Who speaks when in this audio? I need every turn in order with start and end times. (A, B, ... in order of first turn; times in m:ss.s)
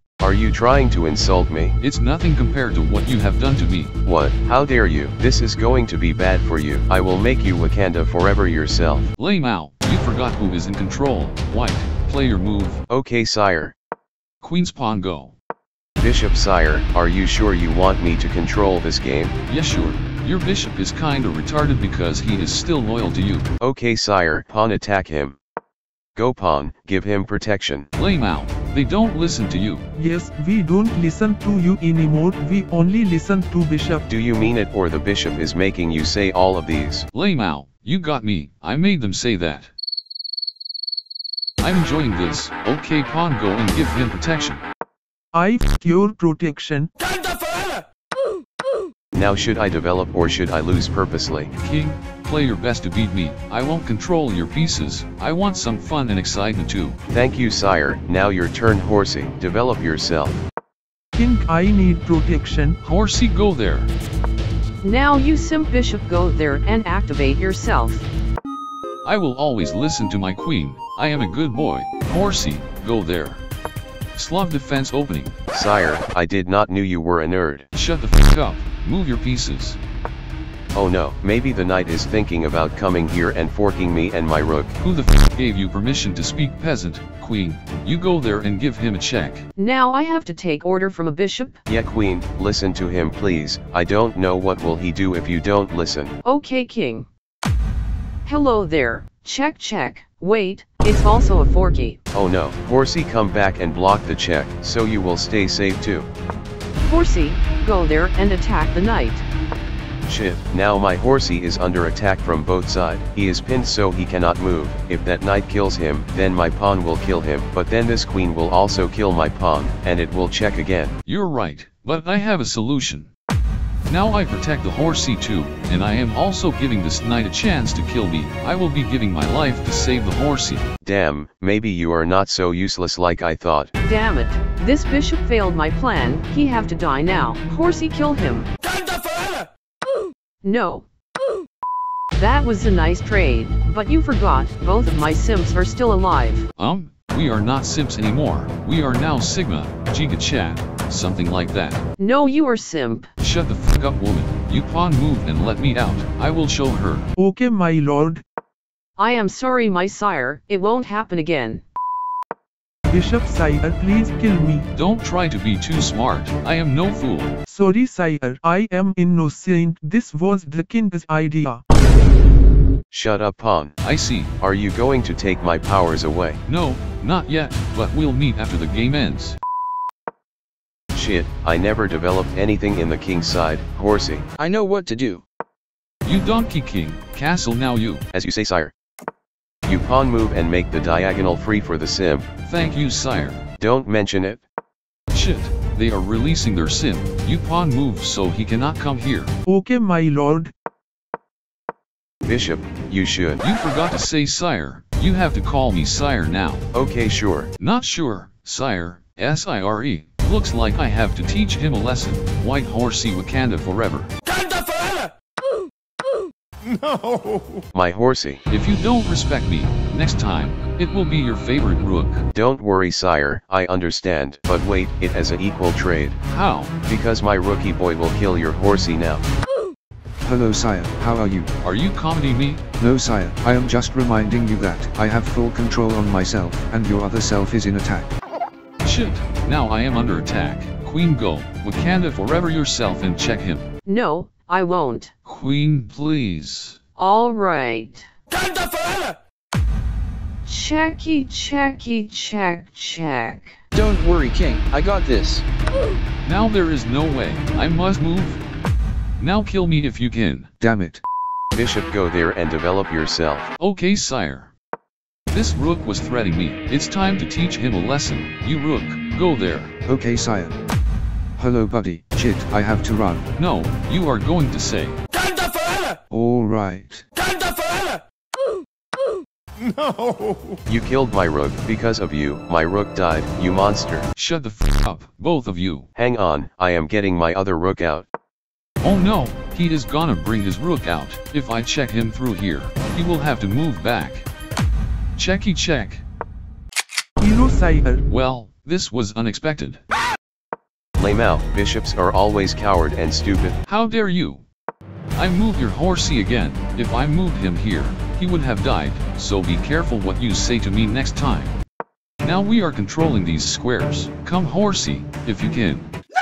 0:00.2-0:01.8 A
0:01.8-0:04.0 B
0:04.0-0:09.1 A
0:09.1-0:12.8 B
0:12.9-0:13.7 A
0:14.4-0:15.3 B
0:16.0-0:19.4 A
0:19.4-0:23.5 B
0:23.6-0:25.4 A
0:26.2-0:27.9 A
0:28.0-0:29.9 B
0:30.0-0:34.0 C
0:34.1-0:37.0 A
0:37.1-0:39.7 B
0:41.6-0:44.6 B
0:45.3-0:46.9 C
0:49.1-0:51.5 A
0:51.6-0:57.0 B
0:57.1-1:00.4 A
1:01.2-1:02.8 C
1:02.8-1:03.9 B
1:04.8-1:08.1 D
1:09.0-1:13.4 B
1:14.2-1:15.4 B
1:15.5-1:17.7 A
1:17.7-1:19.8 B
1:20.7-1:24.8 A
1:24.8-1:29.5 B
1:29.6-1:31.6 D
1:31.7-1:36.2 A
1:36.2-1:37.1 D
1:38.2-1:42.0 D
1:42.1-1:46.1 A
1:46.8-1:49.2 D
1:50.1-2:01.0 A
2:01.0-2:03.1 B
2:03.9-2:10.7 B
2:10.8-2:13.7 A
2:13.8-2:18.5 D
2:20.4-2:20.8 D
2:22.2-2:26.5 D
2:26.6-2:31.8 B
2:32.0-2:33.1 D
2:33.2-2:37.1 B
2:37.2-2:38.2 C
2:39.0-2:41.6 D
2:42.9-2:44.7 C
2:44.8-2:47.3 B
2:47.5-2:51.6 C
2:52.9-2:53.8 A
2:53.8-2:54.3 B
2:54.4-2:56.4 A
2:56.4-2:59.4 B
3:00.9-3:04.2 A
3:04.4-3:05.2 E
3:06.0-3:08.1 B
3:08.1-3:08.7 A
3:09.6-3:12.3 A
3:12.4-3:13.4 B
3:13.6-3:14.4 A
3:15.1-3:19.3 B
3:19.5-3:20.5 C
3:22.2-3:23.4 A
3:23.4-3:26.7 B
3:26.7-3:27.5 A
3:27.6-3:34.1 B
3:37.7-3:38.4 A
3:38.5-3:42.2 B
3:42.3-3:46.2 A
3:46.2-3:46.8 B
3:46.9-3:49.2 A
3:50.2-3:51.5 F
3:51.6-3:52.6 B
3:52.8-3:58.1 F
3:58.8-4:03.7 B
4:03.8-4:05.1 D
4:05.2-4:06.8 B
4:07.0-4:08.0 D
4:10.4-4:13.6 D
4:13.7-4:15.4 E
4:16.2-4:18.4 B
4:19.2-4:20.5 B
4:20.6-4:21.0 F
4:21.5-4:23.5 A
4:23.6-4:24.5 B
4:25.3-4:29.7 B
4:29.8-4:30.5 F
4:31.4-4:33.2 F
4:33.3-4:35.0 B
4:36.1-4:37.0 F
4:40.6-4:44.1 A
4:44.1-4:45.9 B
4:45.9-4:48.0 A
4:48.8-4:54.3 B
4:55.2-4:56.0 B
4:57.2-4:58.0 C
4:58.1-4:59.8 B
5:01.0-5:03.6 A
5:03.6-5:04.4 B
5:05.1-5:11.6 B
5:12.2-5:15.9 B